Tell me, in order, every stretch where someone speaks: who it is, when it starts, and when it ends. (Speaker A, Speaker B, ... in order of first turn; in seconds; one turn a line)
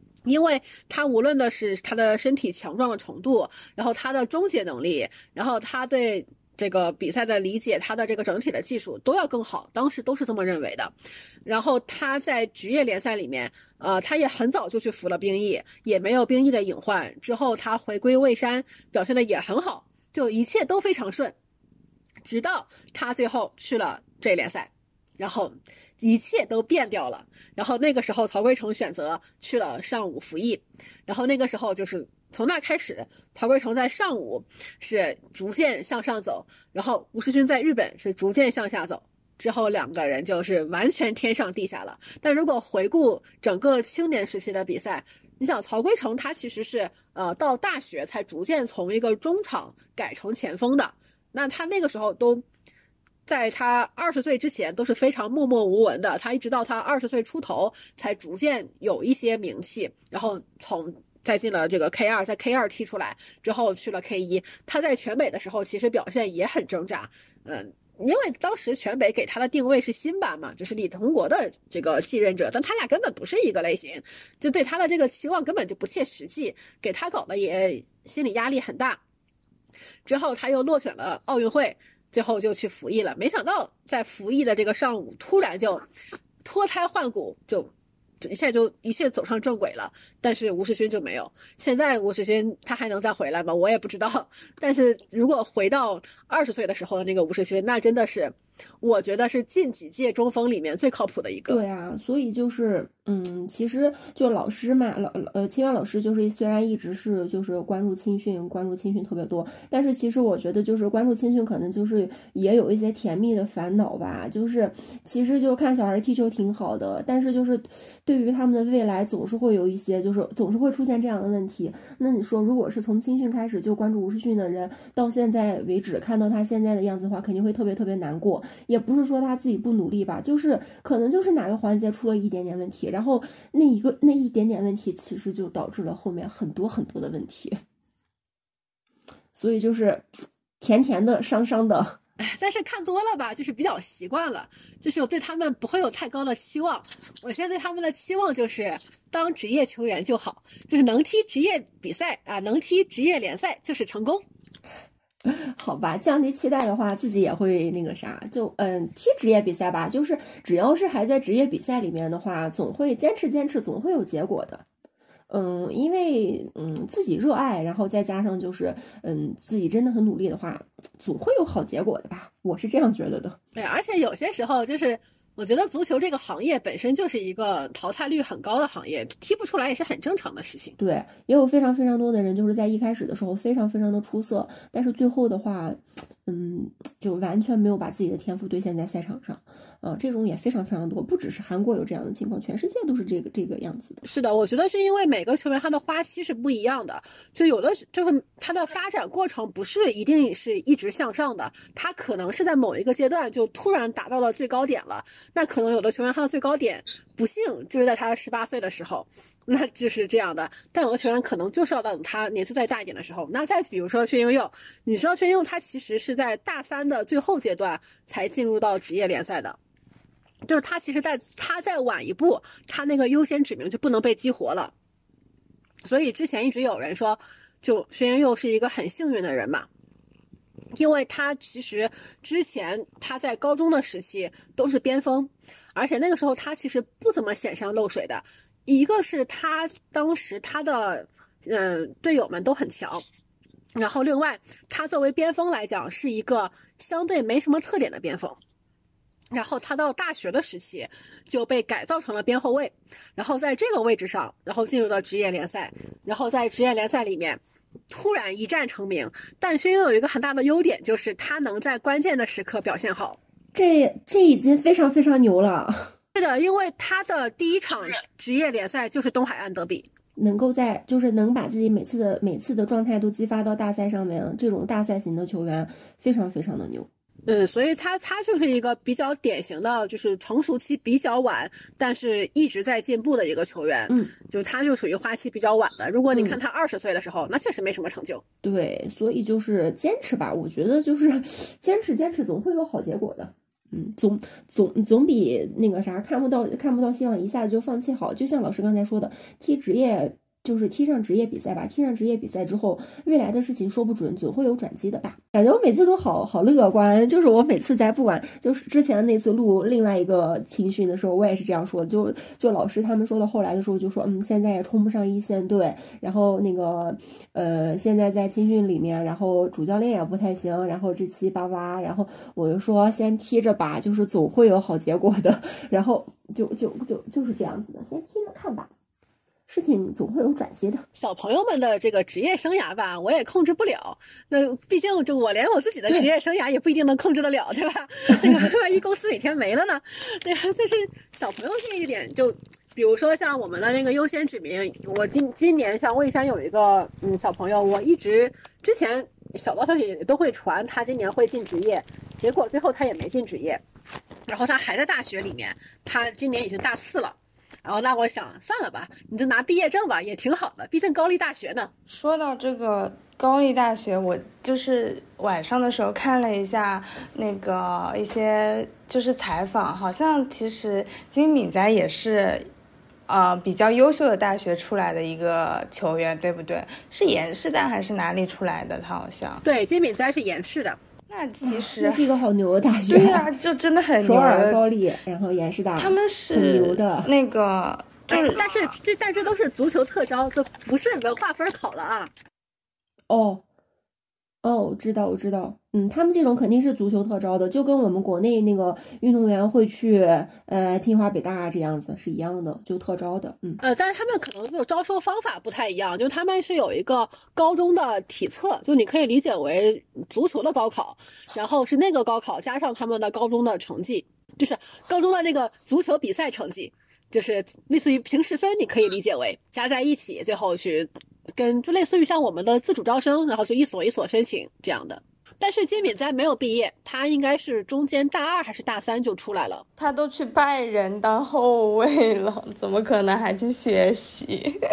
Speaker A: 0.2-10.9
Speaker A: 11.5-21.4
Speaker A: 22.2-52.4
Speaker A: 53.3-79.0
Speaker A: 80.1-85.8
Speaker A: 86.4-87.7
Speaker A: 88.2-101.6
Speaker B: 101.5-137.6
Speaker B: 139.3-140.1
Speaker B: 140.6-142.0
Speaker A: 142.2-154.2
Speaker B: 155.3-164.7
Speaker B: 165.3-173.4
Speaker A: 173.6-180.8
Speaker B: 180.8-194.0
Speaker A: 194.1-219.6
Speaker A: 220.4-224.7
Speaker A: 225.8-229.7
Speaker A: 230.8-243.0
Speaker A: 243.8-248.4
Speaker A: 249.3-263.2
Speaker B: 263.5-265.9
Speaker A: 266.1-269.9
Speaker B: 270.2-276.9
Speaker A: 277.3-288.2
Speaker B: 283.9-284.1
Speaker B: 286.1-286.4
Speaker B: 288.4-328.7
Speaker B: 329.5-330.9
Speaker A: 330.9-353.6
Speaker A: 354.3-361.7
Speaker C: 361.9-372.5
Speaker C: 373.1-379.4
Speaker A: 379.4-380.8
Speaker C: 381.1-382.1
Speaker B: 381.4-383.3
Speaker C: 382.8-384.6
Speaker B: 384.0-387.1
Speaker C: 385.8-388.4
Speaker A: 388.1-392.1
Speaker B: 393.1-393.4
Speaker B: 394.4-403.6
Speaker A: 403.6-429.6
Speaker C: 429.8-434.6